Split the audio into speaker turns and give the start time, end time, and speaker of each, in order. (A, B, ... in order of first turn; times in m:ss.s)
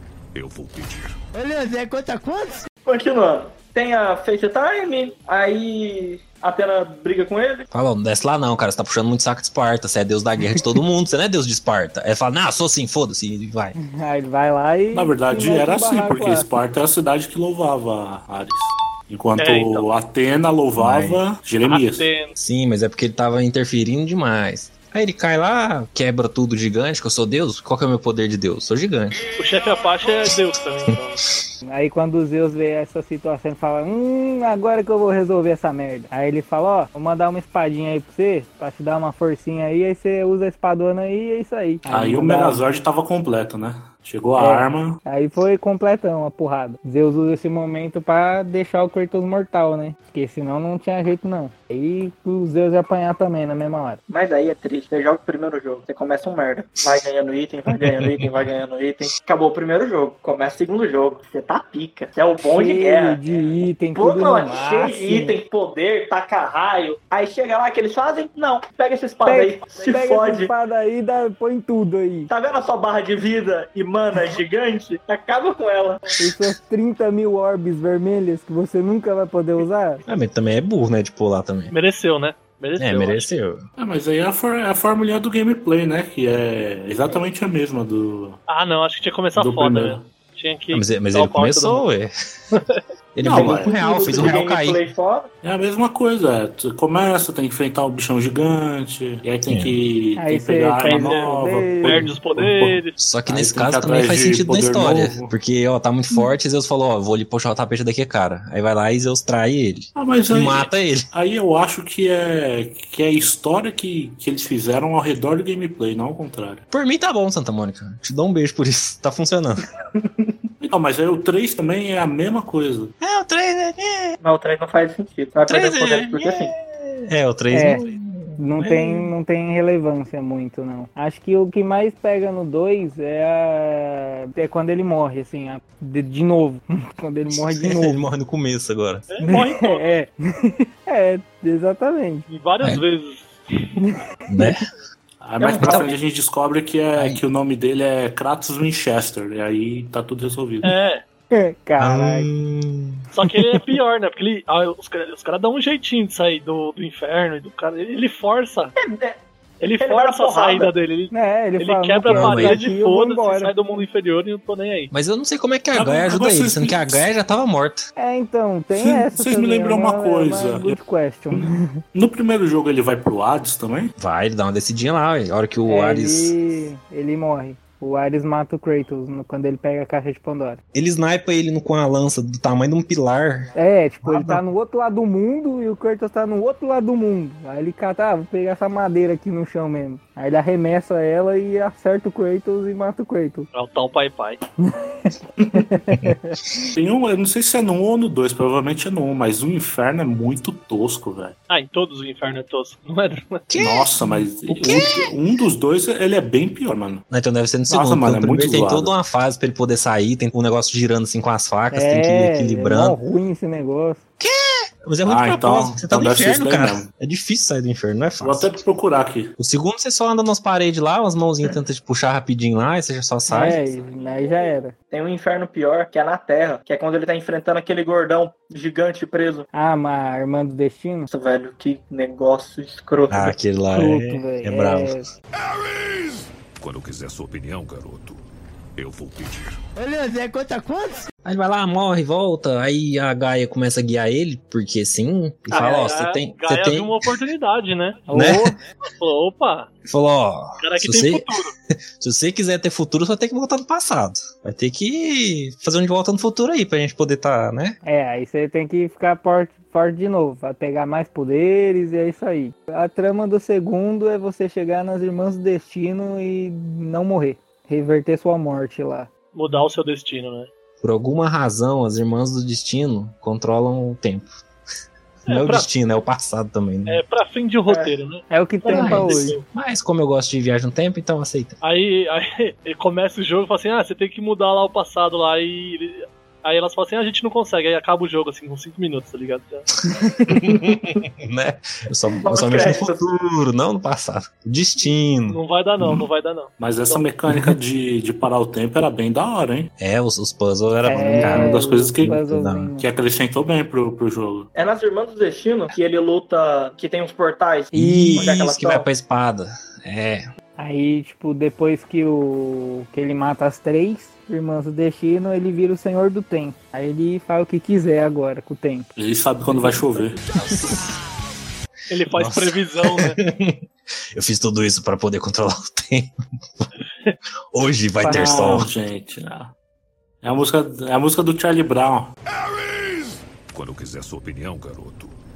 0:00.3-0:01.2 A
0:01.3-0:02.7 B
0:02.8-0:07.7 C
0:07.7-0:13.7 D
0:13.8-0:16.5 E
0:14.9-0:22.1 F
0:19.4-0:19.9 G
0:20.8-0:21.2 D
0:21.6-0:22.3 G
0:22.4-0:29.2 D
0:29.4-0:31.2 G
0:31.6-0:42.6 E
0:41.9-0:45.0 F
0:44.4-0:54.0 E
0:54.1-1:03.2 C
0:57.7-0:58.3 D
1:02.5-1:05.3 E
1:04.0-1:10.5 C
1:09.2-1:12.3 E
1:12.3-1:16.1 C
1:16.2-1:20.0 E
1:20.1-1:21.7 D
1:21.7-1:23.3 G
1:22.8-1:23.6 D
1:23.8-1:28.4 F
1:28.5-1:31.8 G
1:29.4-1:30.1 F
1:30.7-1:32.1 D
1:32.5-1:32.8 G
1:33.1-1:34.8 D
1:33.2-1:34.3 F
1:33.2-1:35.3 C
1:35.4-1:45.3 F
1:39.5-1:39.8 D
1:40.2-1:42.1 E
1:40.8-1:42.9 G
1:43.0-1:51.1 D
1:49.9-1:56.6 F
1:56.7-1:59.6 D
2:00.6-2:02.9 F
2:03.0-2:04.2 D
2:04.2-2:06.5 C
2:05.5-2:09.1 D
2:07.5-2:07.8 E
2:08.4-2:18.0 E
2:17.6-2:19.1 D
2:19.1-2:19.9 G
2:19.2-2:22.3 E
2:22.3-2:23.4 G
2:23.8-2:24.5 E
2:24.3-2:24.6 D
2:25.2-2:30.7 F
2:25.4-2:25.8 C
2:25.6-2:25.9 D
2:27.0-2:27.2 D
2:30.6-2:31.0 G
2:31.3-2:32.3 E
2:31.8-2:33.0 D
2:33.1-2:38.7 G
2:38.8-2:39.2 C
2:39.6-2:44.9 G
2:39.8-2:40.7 C
2:41.1-2:43.5 E
2:42.0-2:42.6 D
2:44.9-2:47.9 D
2:45.7-2:47.0 F
2:48.0-2:51.8 E
2:48.7-2:50.8 F
2:51.3-2:53.9 F
2:54.0-2:56.3 D
2:55.7-3:00.6 E
3:00.7-3:03.5 D
3:03.6-3:13.5 E
3:04.0-3:04.4 D
3:13.5-3:14.4 G
3:14.6-3:16.4 E
3:16.8-3:21.4 F
3:21.5-3:23.4 G
3:23.5-3:25.1 D
3:23.5-3:27.0 F
3:27.1-3:33.0 D
3:27.7-3:28.9 F
3:31.7-3:34.0 E
3:34.2-3:38.6 D
3:35.0-3:36.9 F
3:38.2-3:39.3 F
3:39.4-3:43.6 D
3:43.3-3:44.7 E
3:44.9-3:49.5 C
3:49.5-3:51.1 E
3:51.1-3:53.3 C
3:53.1-3:55.0 D
3:53.7-3:55.1 E
3:56.6-3:58.2 A
3:58.8-3:59.6 A
3:59.8-4:01.1 B
4:01.2-4:07.1 D
4:05.5-4:08.0 G
4:08.1-4:08.6 E
4:08.1-4:08.5 D
4:08.8-4:09.7 G
4:09.8-4:11.3 D
4:10.6-4:11.5 G
4:12.0-4:17.8 D
4:17.8-4:29.1 E
4:29.3-4:30.5 G
4:30.8-4:34.3 D
4:35.3-4:37.0 D
4:35.3-4:35.6 G
4:36.9-4:39.4 G
4:38.3-4:39.4 E
4:38.7-4:41.6 D
4:41.6-4:49.7 G
4:50.3-4:56.0 D
4:50.5-4:50.8 C
4:52.2-4:53.0 C
4:55.3-4:57.0 G
4:56.6-4:59.7 F
4:59.8-5:02.7 D
5:00.8-5:02.8 E
5:01.0-5:02.2 F
5:02.8-5:04.5 F
5:04.5-5:08.8 C
5:07.7-5:10.2 D
5:07.7-5:08.3 E
5:10.6-5:18.9 E
5:19.0-5:20.2 F
5:21.9-5:23.2 G
5:22.1-5:23.6 D
5:24.1-5:26.7 D
5:27.5-5:28.7 D
5:28.0-5:28.4 E
5:28.0-5:29.5 F
5:30.2-5:32.1 F
5:33.5-5:35.2 A